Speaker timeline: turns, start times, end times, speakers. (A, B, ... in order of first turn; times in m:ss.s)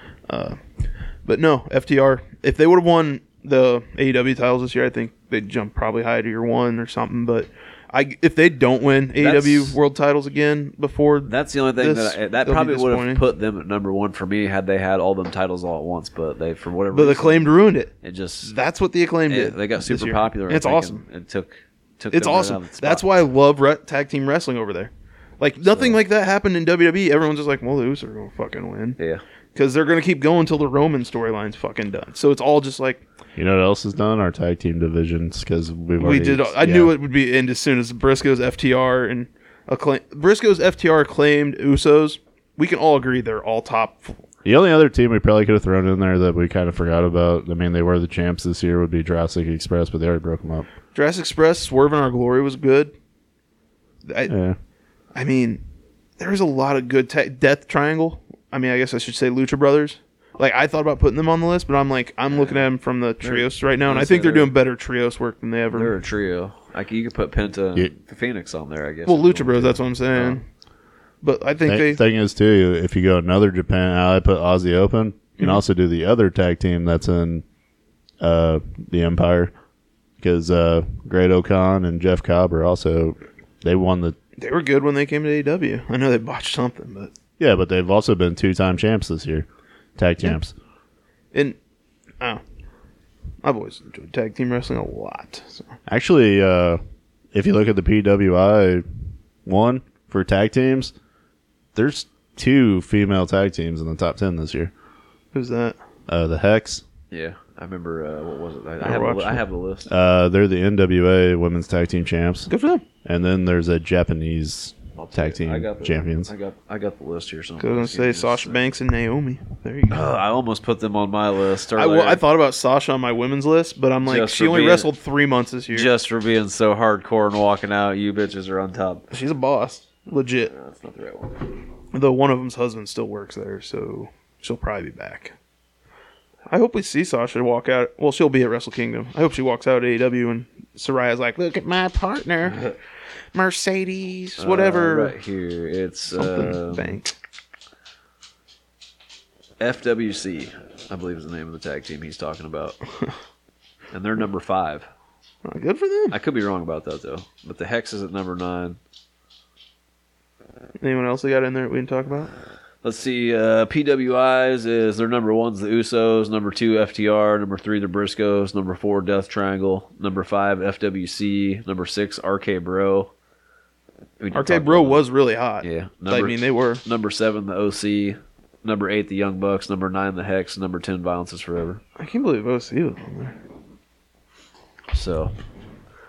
0:00.3-0:00.6 A
0:01.2-0:13.2 A
0:09.2-0:09.8 B
0:11.2-0:18.5 B
0:16.9-0:21.0 A
0:19.3-0:23.0 B
0:22.1-0:29.0 A
0:25.7-0:26.0 B
0:29.0-0:29.2 B
0:29.5-0:33.0 A
0:33.4-0:36.9 C
0:36.0-0:44.2 A
0:44.4-0:50.7 C
0:50.9-0:52.9 A
0:54.0-0:54.3 A
0:54.3-0:54.6 C
0:55.1-0:55.6 A
0:56.2-1:05.9 A
1:03.2-1:04.5 B
1:05.7-1:10.4 B
1:09.0-1:10.4 A
1:11.2-1:12.0 A
1:11.6-1:17.4 C
1:18.2-1:19.5 C
1:20.2-1:24.2 C
1:24.4-1:27.1 A
1:27.4-1:29.4 C
1:30.0-1:30.5 C
1:33.4-1:35.6 A
1:35.9-1:36.8 C
1:37.3-1:38.8 C
1:39.4-1:40.9 C
1:41.7-1:44.7 C
1:45.3-1:45.8 A
1:46.1-1:46.8 C
1:47.1-1:49.9 B
1:48.8-1:49.4 A
1:49.9-1:52.5 C
1:52.5-1:52.8 A
1:53.0-1:56.3 C
1:55.0-1:58.6 B
1:57.6-2:00.1 A
1:59.9-2:02.2 B
2:01.7-2:05.9 A
2:04.0-2:04.9 B
2:05.7-2:09.0 B
2:09.1-2:10.5 A
2:10.5-2:11.5 B
2:11.9-2:15.3 A
2:16.5-2:22.7 A
2:23.3-2:25.1 A
2:24.4-2:26.9 B
2:26.1-2:27.1 A
2:29.6-2:32.8 B
2:33.9-2:34.9 B
2:35.4-2:36.2 A
2:36.1-2:38.8 B
2:40.8-2:42.3 A
2:42.8-2:53.1 B
2:54.2-2:55.0 B
2:54.3-2:56.8 A
2:55.6-3:01.8 B
3:02.0-3:03.4 A
3:04.9-3:05.3 B